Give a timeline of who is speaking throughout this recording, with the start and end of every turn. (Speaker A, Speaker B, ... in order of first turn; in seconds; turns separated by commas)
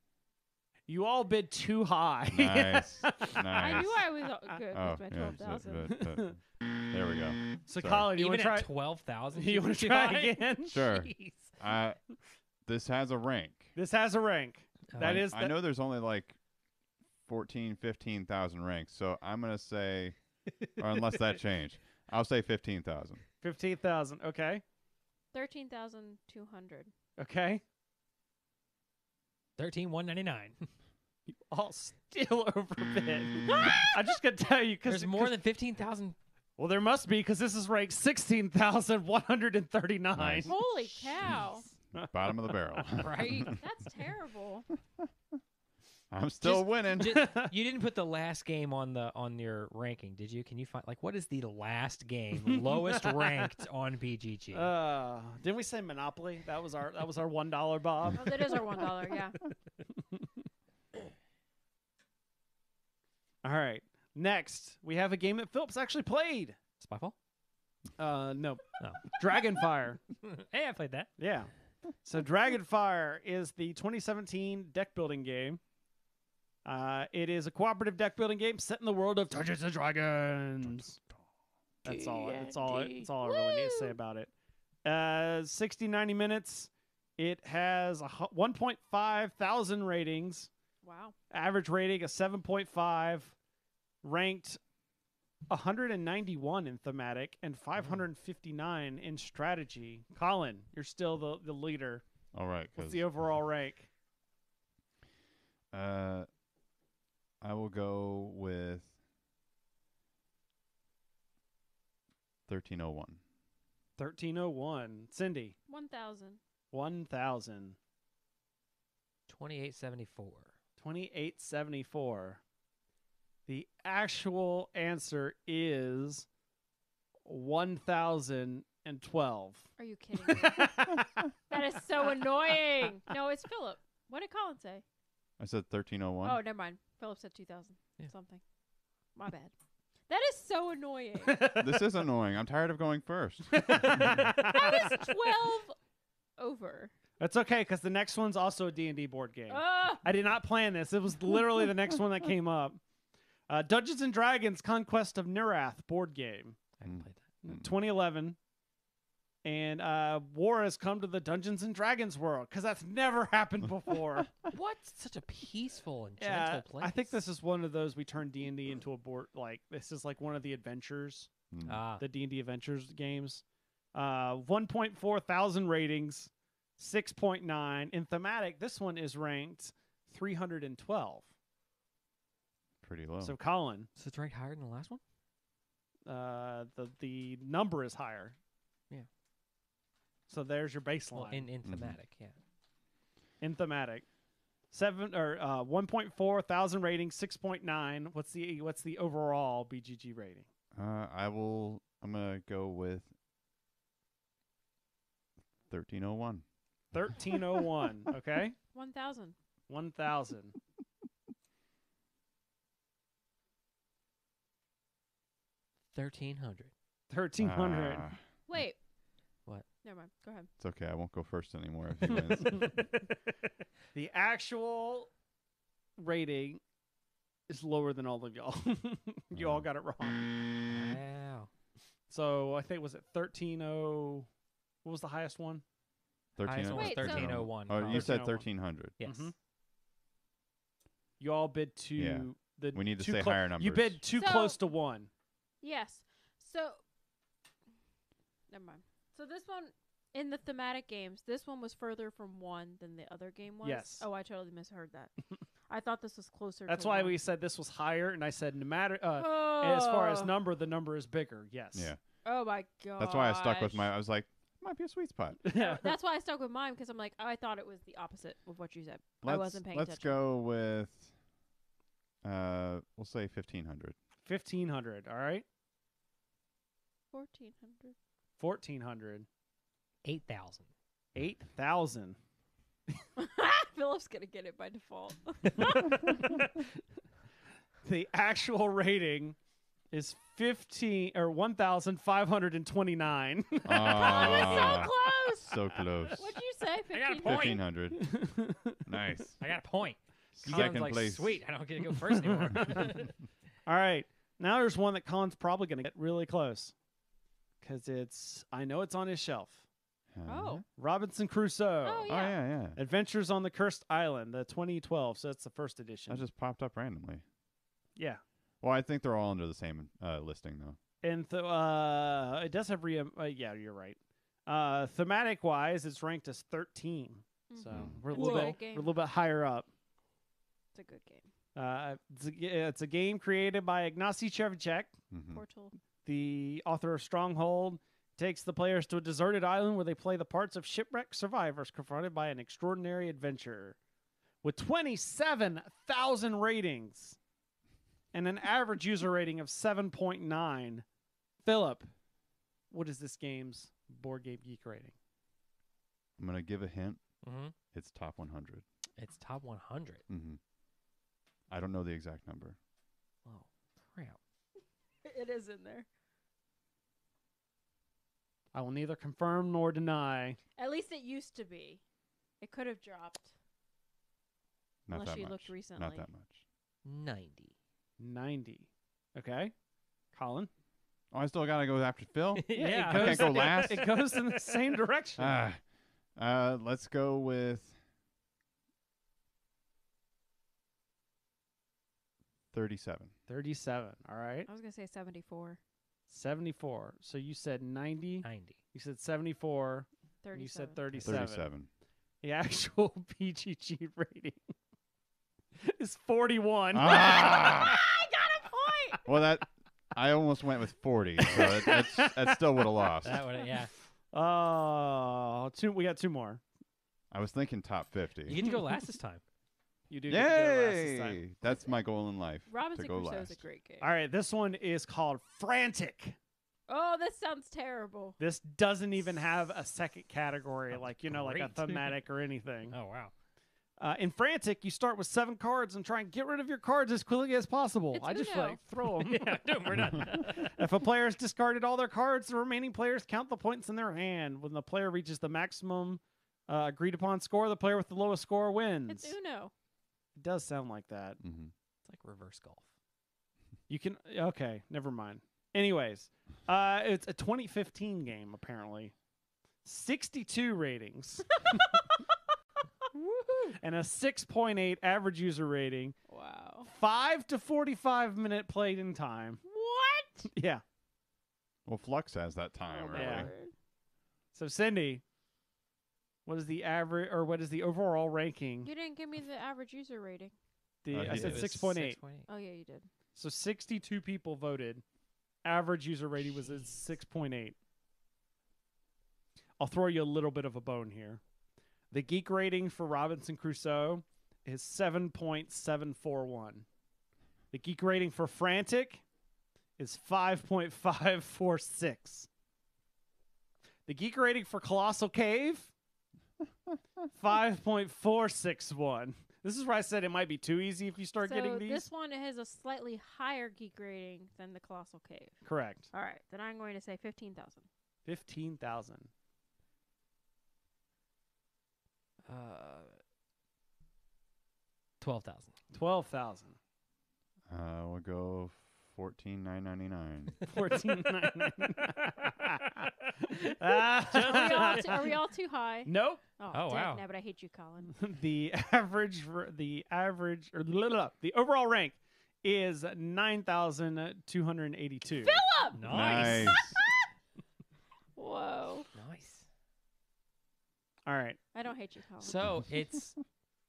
Speaker A: 0.9-4.0, Speaker B: 2.3-4.0, Speaker C: 3.6-6.0, Speaker B: 4.7-8.1, Speaker A: 5.9-6.3, Speaker A: 7.7-8.7, Speaker D: 8.2-11.6, Speaker A: 9.3-10.8, Speaker B: 10.7-12.0, Speaker B: 12.7-13.7, Speaker A: 13.8-15.5, Speaker D: 14.9-15.3, Speaker B: 15.0-16.4, Speaker B: 17.3-23.2, Speaker A: 23.4-24.6, Speaker C: 25.3-26.9, Speaker A: 27.2-27.6, Speaker D: 29.6-30.7, Speaker A: 31.3-35.4, Speaker D: 34.9-36.2, Speaker A: 36.6-40.5, Speaker B: 40.1-40.5, Speaker C: 40.5-41.7, Speaker D: 40.9-41.4, Speaker A: 42.0-42.8, Speaker B: 42.1-43.6, Speaker D: 43.0-43.6, Speaker C: 43.4-44.7, Speaker B: 46.1-47.2, Speaker D: 46.4-54.7, Speaker A: 47.0-47.5, Speaker A: 52.4-53.5, Speaker A: 54.5-59.0, Speaker C: 58.1-59.4, Speaker A: 60.0-60.3, Speaker A: 63.4-66.6, Speaker D: 66.8-67.2, Speaker A: 68.0-70.0, Speaker D: 68.8-69.2, Speaker D: 70.2-71.1, Speaker A: 71.2-71.5, Speaker A: 72.0-75.6, Speaker A: 76.7-81.0, Speaker B: 80.6-81.2, Speaker A: 81.8-84.3, Speaker C: 81.9-84.0, Speaker A: 84.8-90.5, Speaker C: 90.8-91.1, Speaker A: 91.3-93.4, Speaker A: 94.0-94.6, Speaker A: 95.5-102.0, Speaker B: 102.3-103.0, Speaker A: 102.8-103.9, Speaker B: 105.7-106.3, Speaker B: 107.4-108.9, Speaker B: 112.5-113.2, Speaker A: 114.0-115.5, Speaker C: 115.7-116.4, Speaker A: 116.7-117.8, Speaker D: 119.3-120.5, Speaker A: 120.8-122.4, Speaker A: 123.5-126.3, Speaker A: 127.2-129.8, Speaker C: 129.8-130.7, Speaker A: 130.3-131.3, Speaker C: 131.5-134.8, Speaker B: 135.4-136.4, Speaker C: 136.2-138.4, Speaker C: 139.2-139.5, Speaker C: 140.1-141.4, Speaker A: 141.2-141.9, Speaker B: 141.6-144.2, Speaker A: 143.5-145.1, Speaker C: 144.5-145.8, Speaker C: 146.4-146.9, Speaker A: 147.2-152.8, Speaker C: 149.5-150.0, Speaker A: 153.5-156.6, Speaker D: 156.8-157.2, Speaker B: 156.8-157.7, Speaker A: 157.4-158.4, Speaker A: 159.4-164.3, Speaker D: 164.5-167.1, Speaker A: 166.2-171.3, Speaker B: 171.5-171.8, Speaker D: 171.7-172.0, Speaker A: 172.0-181.3, Speaker B: 182.8-183.3, Speaker A: 183.2-183.9, Speaker D: 184.0-185.0, Speaker A: 186.1-188.4, Speaker A: 190.3-191.5, Speaker D: 191.1-192.4, Speaker B: 191.7-192.0, Speaker A: 193.4-194.1, Speaker A: 194.7-200.5, Speaker B: 200.8-203.1, Speaker B: 205.7-206.4, Speaker A: 206.9-208.6, Speaker C: 208.7-209.4, Speaker A: 209.7-210.6, Speaker D: 215.9-216.7, Speaker A: 217.1-218.1, Speaker B: 217.4-218.2, Speaker C: 218.5-218.8, Speaker C: 219.8-220.5, Speaker B: 220.6-222.8, Speaker A: 222.0-225.1, Speaker A: 226.0-226.6, Speaker A: 227.5-230.3, Speaker B: 229.3-229.7, Speaker D: 230.7-231.5, Speaker A: 232.1-234.3, Speaker A: 234.8-235.6, Speaker B: 236.4-238.9, Speaker D: 236.4-238.4, Speaker C: 236.7-237.3, Speaker A: 237.9-238.4, Speaker D: 239.0-239.3, Speaker A: 239.0-239.3, Speaker A: 241.2-245.1, Speaker B: 242.0-244.0, Speaker C: 244.1-244.6, Speaker C: 245.6-246.8, Speaker C: 248.5-255.1, Speaker A: 253.6-254.1, Speaker C: 255.7-257.2, Speaker A: 256.7-261.9, Speaker C: 259.2-260.3, Speaker B: 261.7-262.0, Speaker C: 262.2-263.9, Speaker B: 263.0-265.4, Speaker A: 265.4-265.9, Speaker C: 265.5-270.2, Speaker B: 269.2-271.1, Speaker B: 272.2-274.0, Speaker A: 274.2-275.4, Speaker C: 277.1-277.9, Speaker A: 278.4-279.3, Speaker D: 280.1-280.7, Speaker A: 281.1-282.2, Speaker C: 283.2-286.2, Speaker A: 285.7-286.6, Speaker A: 287.8-289.4, Speaker A: 289.9-294.8, Speaker B: 293.7-296.4, Speaker C: 293.8-297.6, Speaker D: 294.2-294.9, Speaker D: 296.9-297.6, Speaker B: 297.2-298.2, Speaker A: 297.9-298.8, Speaker B: 298.9-299.4, Speaker D: 299.4-303.1, Speaker B: 300.4-301.4, Speaker A: 300.5-300.8, Speaker A: 302.0-303.1, Speaker A: 303.7-306.7, Speaker A: 307.6-309.6, Speaker B: 310.1-310.6, Speaker C: 310.3-310.6, Speaker A: 310.8-312.2, Speaker C: 311.9-312.4, Speaker B: 312.1-312.8, Speaker A: 312.8-316.3, Speaker B: 316.1-317.2, Speaker A: 318.0-318.2, Speaker B: 318.6-320.8, Speaker A: 321.0-329.7, Speaker C: 327.5-329.0, Speaker B: 327.7-328.0, Speaker D: 328.1-328.6, Speaker C: 330.7-331.3, Speaker A: 331.6-335.0, Speaker B: 335.1-335.4, Speaker C: 335.3-335.7, Speaker A: 336.0-343.8, Speaker A: 344.4-347.2, Speaker A: 348.1-350.9, Speaker A: 351.4-351.9, Speaker A: 352.7-354.9, Speaker B: 356.2-357.0, Speaker D: 357.2-357.6, Speaker B: 357.7-358.6, Speaker D: 359.0-360.0, Speaker B: 360.1-360.4, Speaker B: 361.5-362.6, Speaker D: 363.2-364.2, Speaker C: 365.1-365.9, Speaker A: 368.5-370.4, Speaker C: 370.6-371.8, Speaker C: 372.4-373.3, Speaker B: 374.9-376.4, Speaker C: 374.9-376.1, Speaker D: 376.9-377.5, Speaker A: 378.0-379.5, Speaker A: 380.1-380.5, Speaker B: 381.1-383.8, Speaker D: 382.3-384.6, Speaker A: 382.6-385.4, Speaker B: 385.2-385.6, Speaker B: 386.2-387.8, Speaker B: 392.5-393.1, Speaker A: 393.3-394.5, Speaker C: 394.5-395.6, Speaker A: 396.1-401.5, Speaker D: 398.2-398.6, Speaker C: 400.2-400.9, Speaker B: 401.0-401.7, Speaker A: 402.2-404.4, Speaker A: 405.6-407.8, Speaker B: 406.7-407.8, Speaker C: 406.9-409.0, Speaker B: 409.1-413.2, Speaker A: 411.2-413.5, Speaker D: 413.0-413.7, Speaker A: 414.1-416.4, Speaker B: 417.1-418.4, Speaker D: 418.2-419.2, Speaker A: 418.4-418.8, Speaker A: 419.9-421.2, Speaker B: 420.1-423.4, Speaker C: 422.5-423.9, Speaker A: 423.8-426.2, Speaker C: 426.7-428.2, Speaker A: 428.2-432.8, Speaker D: 430.7-432.1, Speaker D: 432.7-433.1, Speaker A: 433.8-449.1, Speaker C: 437.9-438.6, Speaker D: 438.8-440.5, Speaker B: 439.8-440.1, Speaker C: 448.9-449.5, Speaker A: 450.2-451.2, Speaker B: 451.2-451.5, Speaker D: 451.8-452.7, Speaker A: 453.7-458.9, Speaker A: 459.6-461.8, Speaker C: 461.5-462.0, Speaker C: 463.1-463.6, Speaker A: 463.6-466.0, Speaker C: 466.1-466.7, Speaker A: 466.7-469.4, Speaker C: 469.5-470.3, Speaker A: 470.3-470.6, Speaker B: 471.7-473.3, Speaker C: 472.7-473.5, Speaker A: 472.9-473.3, Speaker A: 474.3-475.0, Speaker A: 476.3-478.7, Speaker C: 478.6-480.4, Speaker A: 480.8-482.0, Speaker B: 480.9-481.6, Speaker D: 480.9-482.3, Speaker C: 482.3-482.9, Speaker A: 483.1-484.8, Speaker A: 485.4-487.6, Speaker A: 489.6-491.2, Speaker A: 491.9-496.7, Speaker A: 497.5-499.0, Speaker A: 499.8-502.3, Speaker A: 503.9-505.7, Speaker A: 507.1-511.9, Speaker C: 511.2-517.7, Speaker A: 515.4-515.9, Speaker A: 518.1-519.1, Speaker D: 522.3-523.0, Speaker D: 525.0-525.6, Speaker A: 525.7-526.6, Speaker B: 527.5-530.4, Speaker A: 530.5-535.2, Speaker D: 532.8-533.1, Speaker C: 533.9-538.0, Speaker D: 534.1-535.1, Speaker A: 535.9-536.2, Speaker D: 536.5-537.0, Speaker A: 538.0-545.4, Speaker C: 545.2-547.0, Speaker D: 545.7-546.7, Speaker B: 545.9-546.8, Speaker C: 548.2-548.9, Speaker D: 548.9-549.5, Speaker A: 551.1-551.4, Speaker C: 551.5-552.4, Speaker D: 552.2-553.2